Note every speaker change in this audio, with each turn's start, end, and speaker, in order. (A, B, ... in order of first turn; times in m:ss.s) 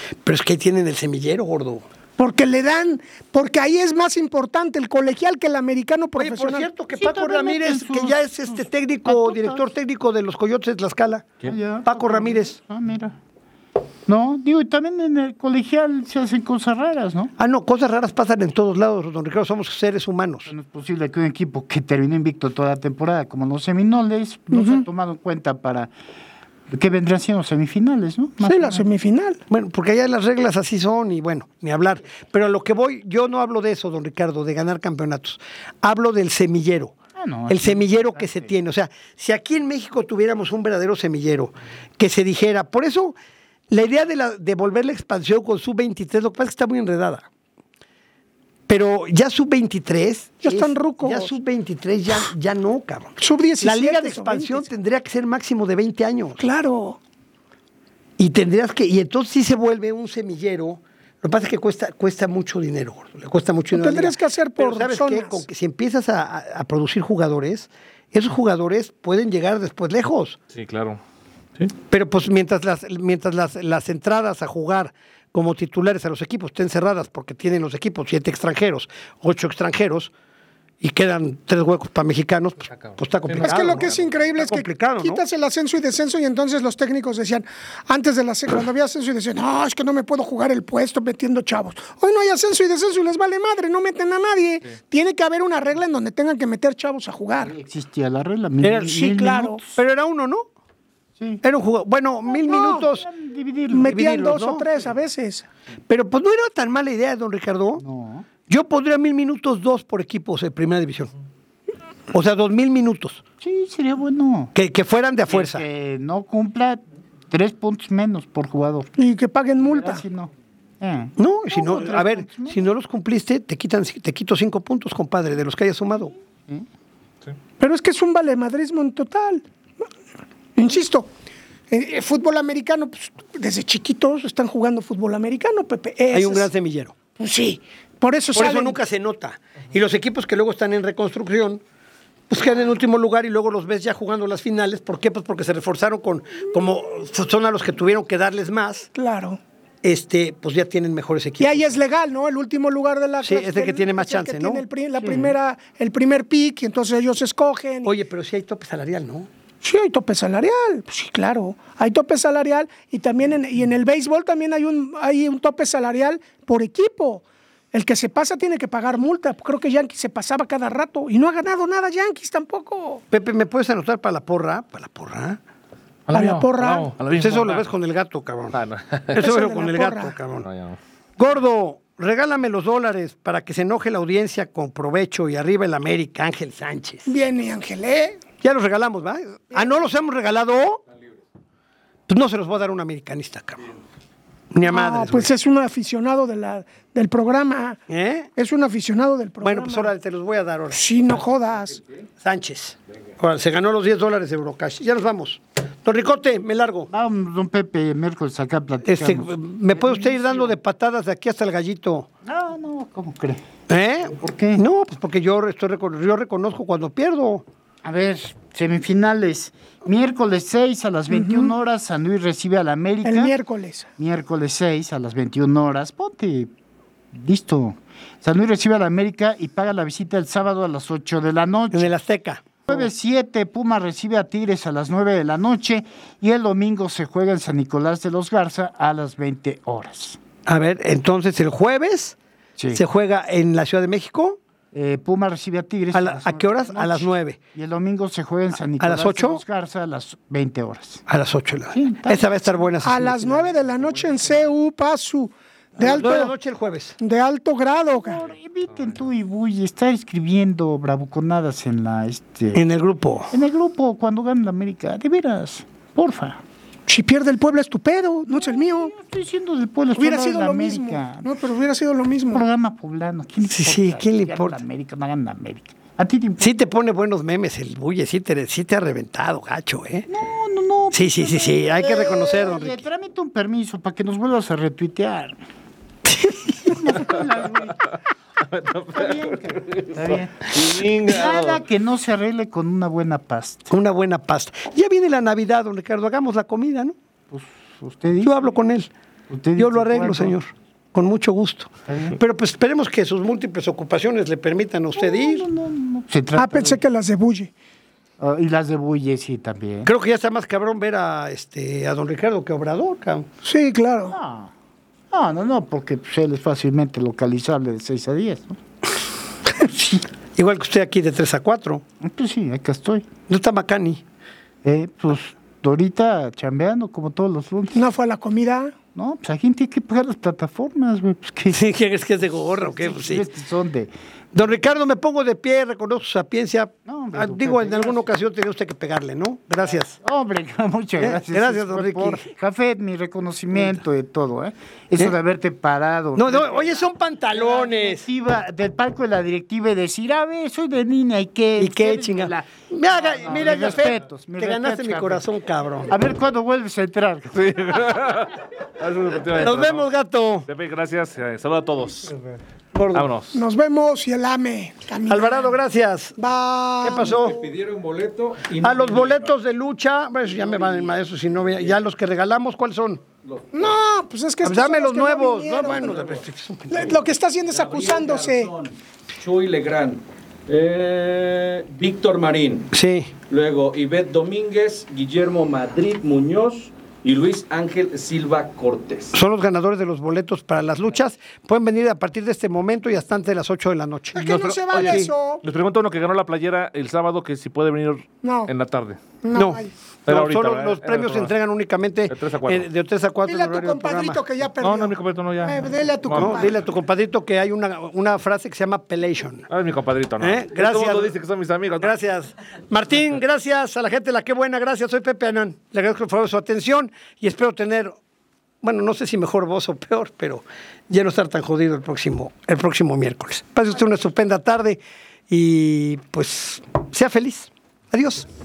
0:00.2-0:01.8 A
0:02.2-0:06.7 B
0:06.2-0:12.6 A
0:07.0-0:09.6 C
0:11.4-0:13.2 C
0:14.1-0:17.3 C
0:17.4-0:20.5 A
0:20.5-0:25.9 C
0:24.5-0:24.8 B
0:26.7-0:28.9 C
0:28.4-0:29.4 B
0:29.5-0:37.0 A
0:37.2-0:38.5 C
0:37.5-0:43.2 A
0:43.7-0:47.3 A
0:48.7-0:56.4 A
0:50.4-0:51.3 B
0:53.2-0:54.7 B
0:56.4-0:57.0 B
0:58.2-1:10.4 A
1:03.7-1:05.4 B
1:10.5-1:11.0 D
1:11.9-1:20.1 A
1:20.8-1:25.2 A
1:22.7-1:24.3 D
1:23.4-1:37.5 B
1:37.4-1:39.8 C
1:38.6-1:39.0 A
1:38.9-1:39.6 B
1:39.8-1:40.5 A
1:41.4-1:43.1 A
1:42.4-1:42.8 B
1:42.5-1:44.1 C
1:43.7-1:45.5 B
1:43.8-1:44.7 A
1:45.9-1:47.8 A
1:47.8-1:48.3 C
1:48.5-1:51.1 A
1:52.1-1:53.2 A
1:53.4-1:54.5 C
1:54.6-1:55.6 A
1:55.3-1:58.9 C
1:59.0-2:00.0 B
1:59.6-2:02.6 C
2:01.2-2:06.1 A
2:07.6-2:09.4 B
2:10.6-2:11.1 B
2:11.7-2:16.5 B
2:16.1-2:17.0 A
2:17.2-2:18.8 B
2:18.3-2:21.6 A
2:22.3-2:28.9 A
2:29.0-2:29.4 B
2:29.8-2:31.8 A
2:31.4-2:37.9 B
2:33.2-2:34.6 A
2:35.0-2:35.3 C
2:37.8-2:39.3 A
2:39.6-2:53.0 B
2:53.1-2:55.4 A
2:56.1-2:57.7 D
2:56.1-2:56.9 B
2:57.2-2:58.6 A
2:58.5-2:59.3 D
2:59.1-3:00.5 A
2:59.2-3:00.2 B
3:00.4-3:00.8 D
3:01.2-3:07.2 A
3:07.1-3:08.2 B
3:08.4-3:10.8 A
3:12.1-3:13.8 A
3:14.5-3:15.3 A
3:14.6-3:17.8 B
3:17.9-3:18.3 A
3:18.4-3:19.9 B
3:19.4-3:20.9 A
3:20.7-3:21.8 B
3:22.2-3:26.9 A
3:26.9-3:30.5 C
3:28.8-3:32.1 A
3:32.2-3:33.4 C
3:33.7-3:37.4 A
3:34.2-3:34.6 C
3:37.8-3:43.4 C
3:41.1-3:41.5 B
3:43.0-3:43.9 B
3:44.0-3:46.5 C
3:47.1-3:51.9 C
3:51.7-3:52.6 A
3:52.7-4:00.2 C
4:00.5-4:02.2 A
4:02.6-4:02.8 C
4:02.7-4:04.4 A
4:04.7-4:11.0 C
4:05.9-4:07.4 A
4:08.8-4:09.4 A
4:11.1-4:13.5 A
4:11.7-4:12.2 C
4:12.8-4:16.3 B
4:15.8-4:17.0 A
4:17.0-4:18.2 B
4:17.9-4:22.6 C
4:22.5-4:23.3 A
4:23.3-4:26.4 C
4:26.9-4:28.9 B
4:28.3-4:31.3 C
4:30.0-4:32.4 B
4:32.3-4:36.5 C
4:33.4-4:34.6 A
4:36.4-4:40.1 A
4:40.1-4:45.4 C
4:40.9-4:42.8 A
4:46.1-4:46.7 A
4:46.6-4:47.9 C
4:48.4-4:51.1 D
4:48.9-4:53.7 C
4:50.6-4:51.6 E
4:53.7-4:57.0 A
4:57.3-4:58.4 C
4:58.2-4:58.9 A
4:59.3-5:00.4 C
4:59.6-5:05.4 A
5:01.9-5:02.2 C
5:05.0-5:06.8 C
5:06.4-5:07.5 B
5:08.2-5:09.9 C
5:09.8-5:13.3 A
5:13.4-5:14.2 B
5:14.1-5:14.5 C
5:15.1-5:18.6 C
5:20.4-5:21.8 A
5:22.0-5:23.1 C
5:23.3-5:24.0 A
5:24.6-5:27.8 C
5:27.8-5:28.7 B
5:29.0-5:31.6 C
5:31.5-5:33.2 A
5:32.8-5:33.9 C
5:34.3-5:40.0 A
5:36.9-5:38.1 C
5:40.0-5:46.8 C
5:41.0-5:42.2 A
5:43.5-5:43.8 A
5:46.2-5:48.1 A
5:47.3-5:52.5 C
5:51.6-5:56.0 A
5:53.0-5:55.2 C
5:55.9-5:57.6 C
5:57.4-5:59.9 D
5:59.3-6:00.5 A
6:00.5-6:02.2 D
6:02.7-6:03.1 A
6:02.9-6:03.4 D
6:03.3-6:05.5 B
6:05.1-6:06.2 A
6:06.2-6:07.4 B
6:06.8-6:07.4 A
6:06.9-6:09.3 E
6:08.5-6:13.0 A
6:10.3-6:11.8 E
6:13.3-6:13.7 E
6:13.5-6:16.0 B
6:14.4-6:17.0 A
6:15.8-6:16.2 E
6:16.7-6:18.5 B
6:17.4-6:29.2 E
6:22.7-6:23.1 A
6:29.1-6:35.1 A
6:34.2-6:35.4 B
6:34.2-6:39.0 D
6:38.2-6:38.5 B
6:39.2-6:39.7 B
6:39.3-6:44.2 A
6:40.1-6:41.3 D
6:42.1-6:42.7 D
6:43.3-6:46.5 B
6:44.6-6:46.5 D
6:46.1-6:49.5 A
6:49.5-6:51.9 D
6:50.2-6:51.2 A
6:51.8-6:58.0 A
6:58.6-7:08.3 A